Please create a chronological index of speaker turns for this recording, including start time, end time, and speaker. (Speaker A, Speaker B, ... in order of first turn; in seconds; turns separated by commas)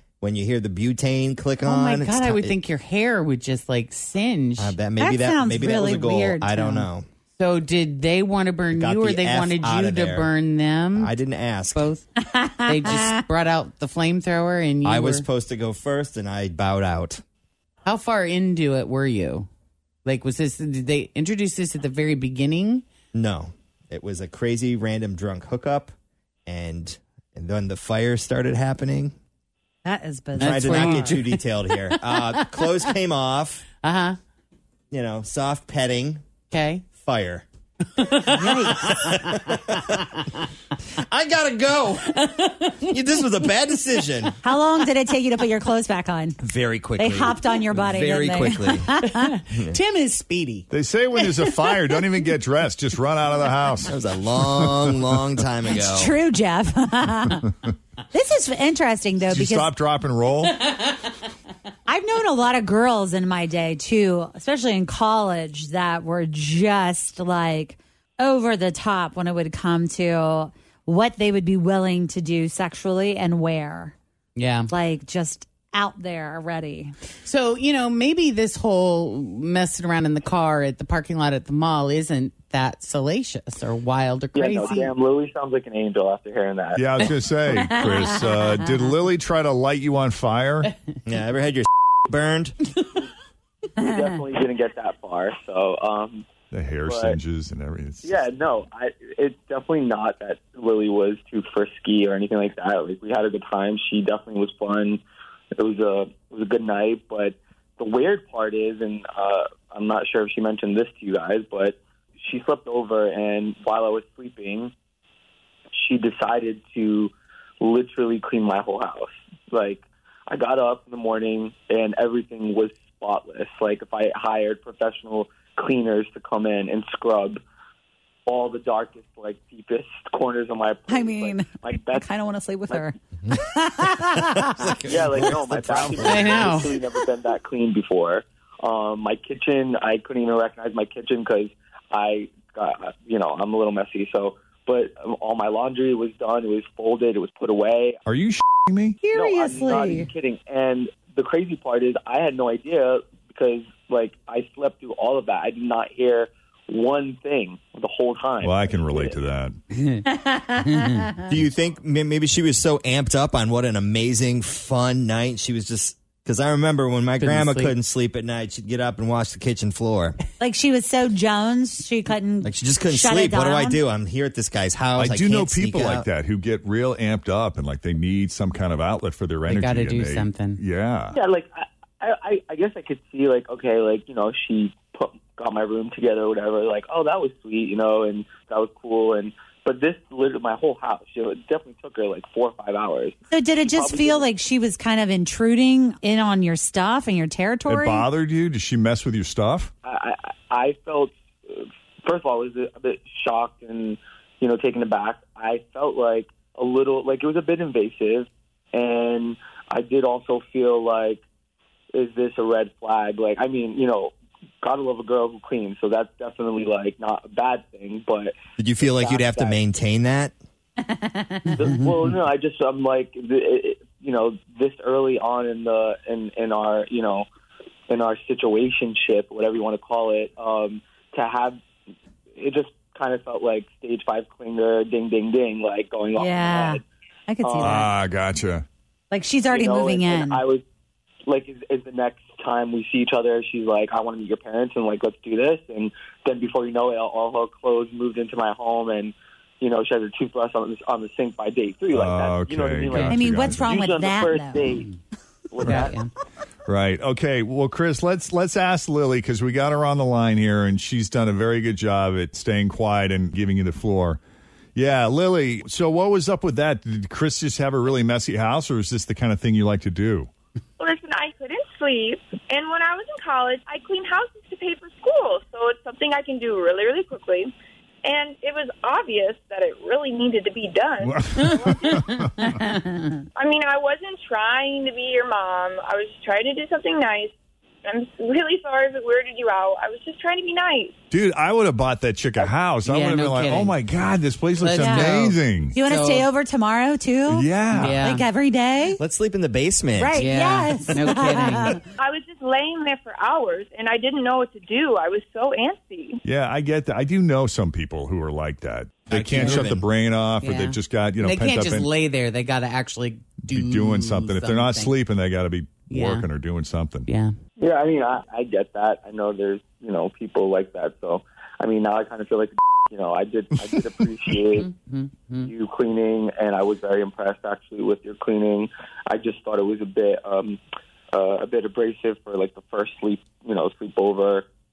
Speaker A: 0.2-2.6, Speaker B: 1.6-4.8, Speaker A: 4.6-7.1, Speaker C: 5.0-6.5, Speaker B: 5.9-11.2, Speaker A: 8.7-10.3, Speaker A: 10.9-11.9, Speaker B: 11.7-12.1, Speaker C: 12.2-13.1, Speaker B: 12.7-15.2, Speaker A: 14.8-17.2, Speaker B: 17.9-19.5, Speaker B: 20.1-22.8, Speaker A: 23.1-25.9, Speaker A: 26.5-29.1, Speaker C: 29.9-31.1, Speaker B: 30.4-33.0, Speaker A: 30.4-33.7, Speaker B: 33.8-34.2, Speaker A: 34.9-36.2, Speaker B: 36.5-36.9, Speaker A: 37.0-37.5, Speaker B: 38.0-39.8, Speaker C: 38.3-38.8, Speaker A: 38.7-39.9, Speaker A: 41.0-44.3, Speaker B: 42.1-42.9, Speaker C: 44.4-46.4, Speaker A: 46.4-48.9, Speaker C: 47.0-49.4, Speaker B: 49.0-52.2, Speaker D: 50.7-53.9, Speaker A: 53.9-56.2, Speaker D: 54.5-55.1, Speaker C: 55.7-57.5, Speaker C: 58.1-59.7, Speaker D: 59.3-60.6, Speaker C: 61.9-74.0, Speaker B: 74.4-74.7, Speaker C: 74.7-77.0, Speaker B: 77.2-84.9, Speaker E: 84.3-87.1, Speaker D: 86.8-90.7, Speaker C: 87.5-88.5, Speaker A: 91.1-92.6, Speaker E: 93.8-96.3, Speaker D: 96.5-98.2, Speaker E: 96.9-97.2, Speaker E: 98.0-105.0, Speaker E: 105.6-114.7, Speaker E: 115.7-127.4, Speaker E: 128.3-132.1, Speaker C: 130.9-134.6, Speaker A: 134.1-136.7, Speaker E: 134.8-148.0, Speaker B: 136.0-136.8, Speaker D: 148.1-149.0, Speaker C: 149.0-150.1, Speaker E: 149.1-159.2, Speaker D: 158.4-159.6, Speaker C: 160.1-160.5, Speaker A: 161.3-170.2, Speaker B: 167.2-167.7, Speaker C: 170.4-173.8, Speaker A: 172.4-176.1, Speaker D: 175.0-181.2, Speaker B: 179.5-180.6, Speaker E: 181.1-194.3, Speaker C: 193.3-198.1, Speaker D: 197.7-199.7, Speaker E: 199.8-211.2, Speaker E: 211.9-219.6, Speaker A: 218.6-220.3, Speaker B: 221.5-222.2, Speaker E: 221.5-227.3, Speaker E: 227.9-231.6, Speaker E: 232.4-236.8, Speaker C: 236.2-237.9, Speaker E: 237.4-237.8, Speaker D: 237.6-238.7, Speaker C: 239.1-240.4, Speaker E: 239.5-240.6, Speaker E: 241.3-254.9, Speaker D: 251.9-253.7, Speaker C: 253.1-254.7, Speaker E: 255.5-256.0, Speaker D: 255.6-255.9, Speaker B: 255.7-256.1, Speaker D: 256.7-264.2, Speaker D: 264.8-270.3, Speaker F: 270.8-277.5, Speaker F: 278.1-281.9, Speaker D: 281.0-282.5, Speaker B: 281.4-282.8, Speaker F: 283.4-287.3, Speaker F: 287.9-290.9, Speaker D: 291.1-295.8, Speaker B: 292.9-293.8, Speaker B: 294.6-296.3, Speaker C: 294.7-295.1, Speaker C: 295.8-299.0, Speaker D: 297.3-298.1, Speaker B: 297.7-298.3, Speaker A: 299.0-300.3, Speaker C: 300.0-301.8, Speaker B: 300.2-301.8, Speaker F: 302.0-306.2, Speaker D: 306.2-311.9, Speaker A: 309.1-309.9, Speaker B: 309.1-309.7, Speaker B: 310.4-315.0, Speaker D: 313.4-317.1, Speaker B: 315.9-316.3, Speaker B: 317.1-317.4, Speaker E: 317.6-324.7, Speaker B: 324.6-325.5, Speaker E: 325.4-330.6, Speaker E: 331.1-334.5